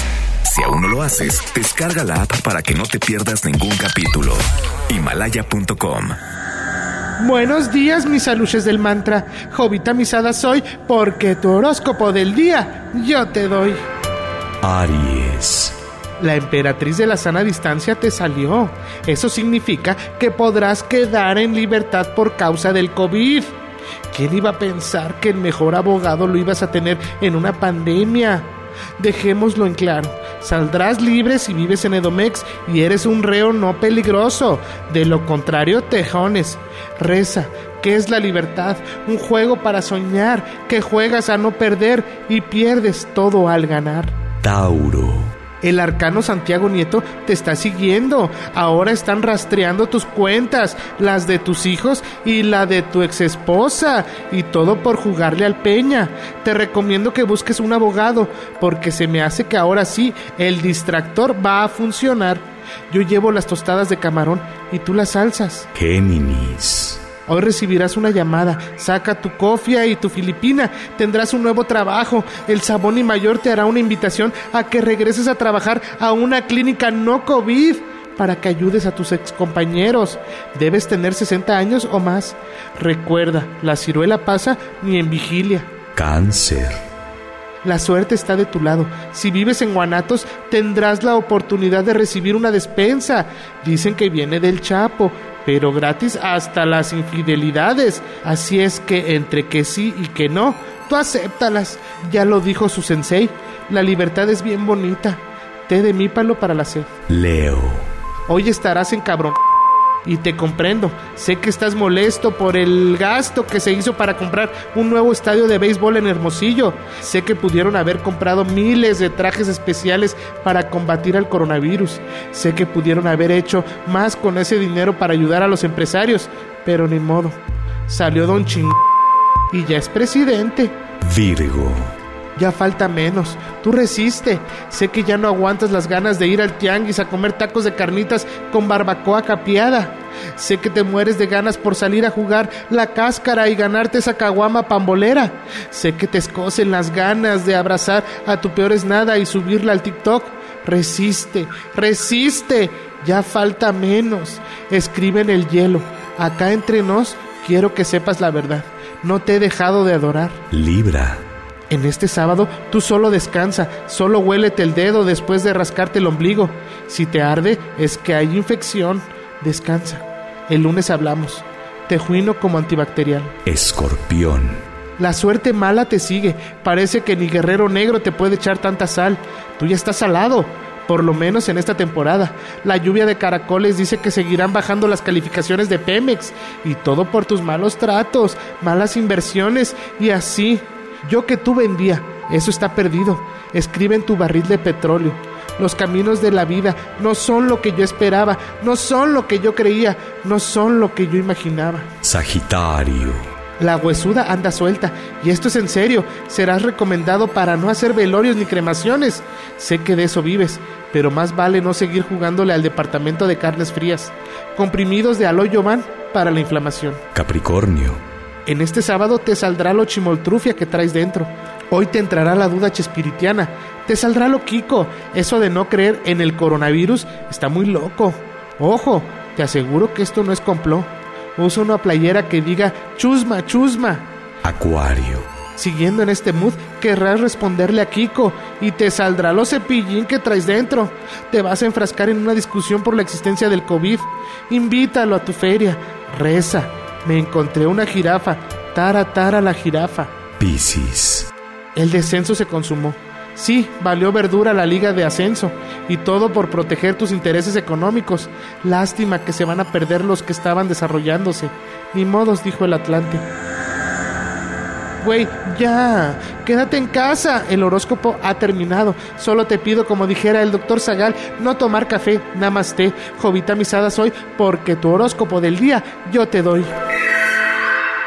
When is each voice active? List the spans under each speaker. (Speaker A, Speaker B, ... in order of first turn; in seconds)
Speaker A: 0.4-6.2
Speaker B: 7.2-13.8, 16.2-23.6, 24.1-44.2, 45.6-65.7, 67.3-85.7, 87.6-106.9, 108.3-109.4, 110.0-128.8, 129.5-130.7, 132.4-160.4, 161.7-173.3, 175.0-201.9, 203.6-217.0, 218.5-234.1, 235.6-250.1, 251.8-263.2, 265.0-276.7
Speaker C: 14.6-15.8, 44.4-45.3, 65.8-67.0, 86.0-86.8, 107.1-107.9, 131.1-131.9, 160.5-161.2, 173.4-174.6, 202.0-203.3, 217.1-218.0, 234.4-235.3, 250.4-251.3